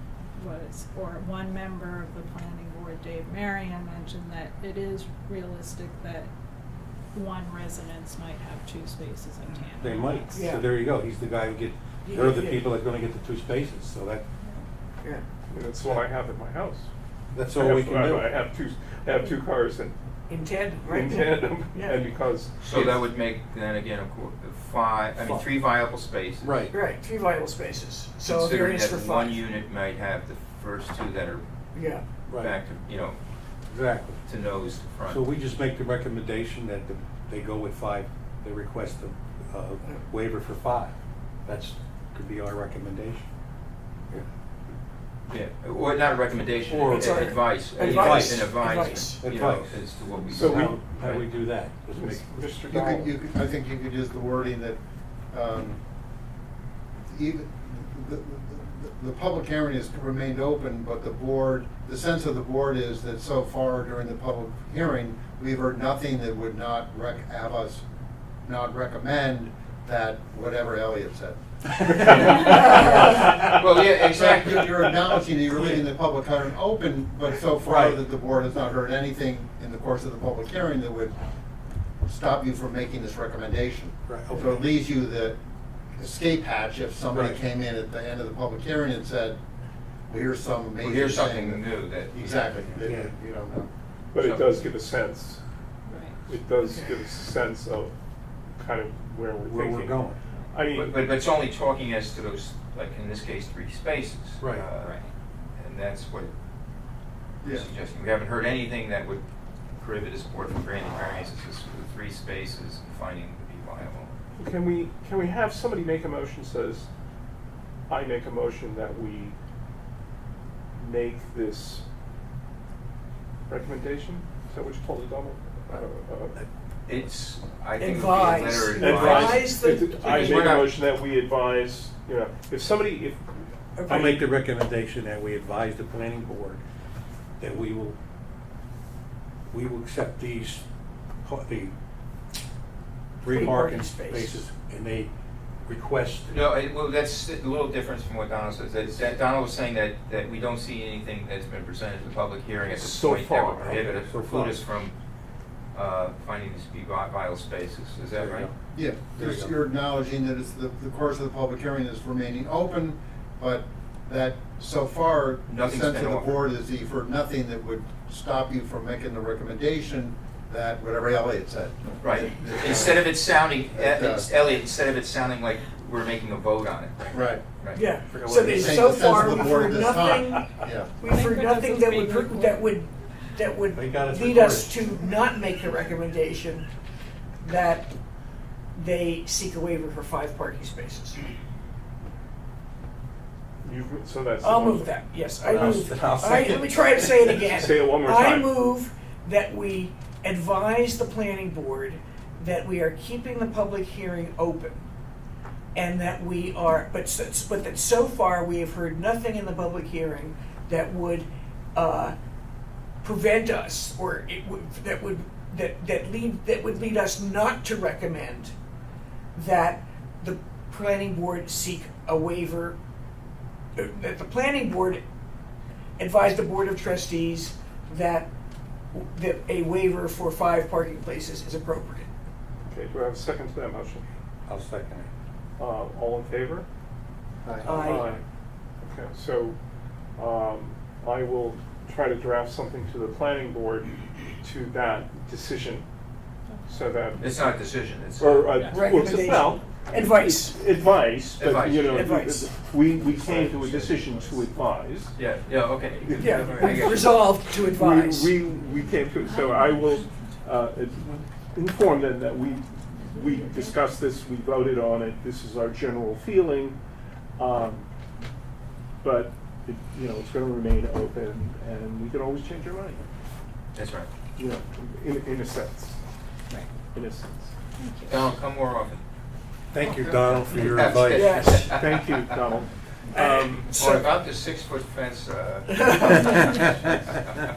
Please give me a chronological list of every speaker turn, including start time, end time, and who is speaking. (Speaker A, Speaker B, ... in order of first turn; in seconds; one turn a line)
Speaker A: 0.4-6.3
Speaker A: 7.1-10.5
Speaker B: 9.8-14.2
Speaker C: 10.3-10.7
Speaker C: 12.0-12.6
Speaker D: 15.5-16.9
Speaker B: 17.3-18.3
Speaker D: 17.5-19.9
Speaker C: 20.3-22.1
Speaker D: 20.9-23.0
Speaker E: 22.6-26.6
Speaker B: 25.2-25.4
Speaker B: 26.4-26.7
Speaker C: 26.7-29.4
Speaker E: 28.3-31.4
Speaker C: 31.7-32.0
Speaker B: 32.3-32.6
Speaker E: 32.4-33.2
Speaker B: 33.7-34.2
Speaker E: 34.2-35.2
Speaker B: 35.0-43.3
Speaker E: 45.3-51.2
Speaker B: 46.7-52.2
Speaker C: 46.9-49.2
Speaker D: 50.4-50.7
Speaker D: 51.9-53.1
Speaker F: 52.7-54.8
Speaker F: 55.3-55.8
Speaker F: 57.1-67.8
Speaker F: 68.4-71.4
Speaker B: 71.8-73.4
Speaker F: 71.9-81.1
Speaker E: 72.2-75.0
Speaker B: 75.6-75.8
Speaker B: 77.6-78.0
Speaker F: 82.0-85.4
Speaker B: 84.0-84.6
Speaker F: 86.0-89.4
Speaker B: 87.1-87.4
Speaker F: 90.1-93.7
Speaker E: 90.8-92.5
Speaker B: 92.8-93.1
Speaker D: 94.1-95.4
Speaker E: 94.2-94.5
Speaker A: 95.9-96.3
Speaker D: 96.2-97.9
Speaker C: 96.6-96.9
Speaker D: 98.5-100.0
Speaker B: 99.4-100.2
Speaker D: 100.5-101.0
Speaker E: 100.7-105.0
Speaker B: 104.4-104.7
Speaker A: 104.8-105.1
Speaker E: 105.6-106.3
Speaker F: 107.4-107.7
Speaker E: 107.4-109.2
Speaker E: 109.7-114.1
Speaker D: 114.4-116.9
Speaker D: 117.9-119.3
Speaker D: 120.8-121.8
Speaker D: 123.5-126.4
Speaker E: 126.8-130.7
Speaker C: 127.8-130.5
Speaker D: 128.7-133.2
Speaker C: 133.7-134.1
Speaker B: 133.9-136.6
Speaker D: 133.9-134.2
Speaker B: 137.4-138.0
Speaker B: 139.5-140.6
Speaker B: 141.2-141.7
Speaker B: 143.2-145.1
Speaker C: 143.2-144.4
Speaker B: 145.6-146.4
Speaker E: 146.3-154.9
Speaker D: 152.7-153.9
Speaker B: 153.7-154.6
Speaker E: 155.7-158.5
Speaker B: 158.1-159.5
Speaker F: 158.7-173.2
Speaker E: 165.4-166.4
Speaker E: 172.0-177.8
Speaker F: 173.7-174.3
Speaker F: 177.1-177.4
Speaker C: 177.7-180.5
Speaker B: 178.1-179.5
Speaker F: 178.4-180.9
Speaker C: 181.0-186.7
Speaker A: 181.0-182.8
Speaker B: 183.7-184.8
Speaker C: 187.4-187.9
Speaker C: 188.7-191.2
Speaker D: 193.6-194.9
Speaker C: 194.4-204.8
Speaker B: 195.4-197.7
Speaker D: 197.6-198.6
Speaker C: 205.7-212.1
Speaker C: 213.0-218.5
Speaker C: 219.3-222.8
Speaker C: 223.8-225.0
Speaker C: 226.0-228.3
Speaker C: 228.9-232.1
Speaker D: 232.7-234.0
Speaker B: 234.4-235.1
Speaker D: 235.6-236.7
Speaker B: 237.4-237.9
Speaker C: 237.6-238.1
Speaker D: 237.7-238.2
Speaker D: 238.8-239.6
Speaker D: 240.2-245.8
Speaker A: 246.5-246.9
Speaker D: 246.7-247.5
Speaker E: 247.2-248.6
Speaker D: 248.2-255.2
Speaker A: 248.5-249.0
Speaker C: 248.7-250.6
Speaker E: 251.4-252.1
Speaker C: 251.9-252.5
Speaker B: 253.2-254.1
Speaker E: 255.2-257.2
Speaker D: 255.9-257.1
Speaker C: 256.1-258.3
Speaker D: 257.7-266.8
Speaker A: 258.7-260.1
Speaker A: 263.0-263.8
Speaker D: 267.4-267.9
Speaker D: 269.0-273.0
Speaker E: 273.7-274.1
Speaker D: 274.4-276.0
Speaker D: 276.9-277.6
Speaker A: 277.8-278.3
Speaker E: 278.1-279.0
Speaker B: 279.7-281.7
Speaker E: 279.9-281.9
Speaker C: 281.1-281.6
Speaker D: 281.6-283.8
Speaker C: 283.1-284.1
Speaker E: 283.7-287.4
Speaker C: 285.7-286.4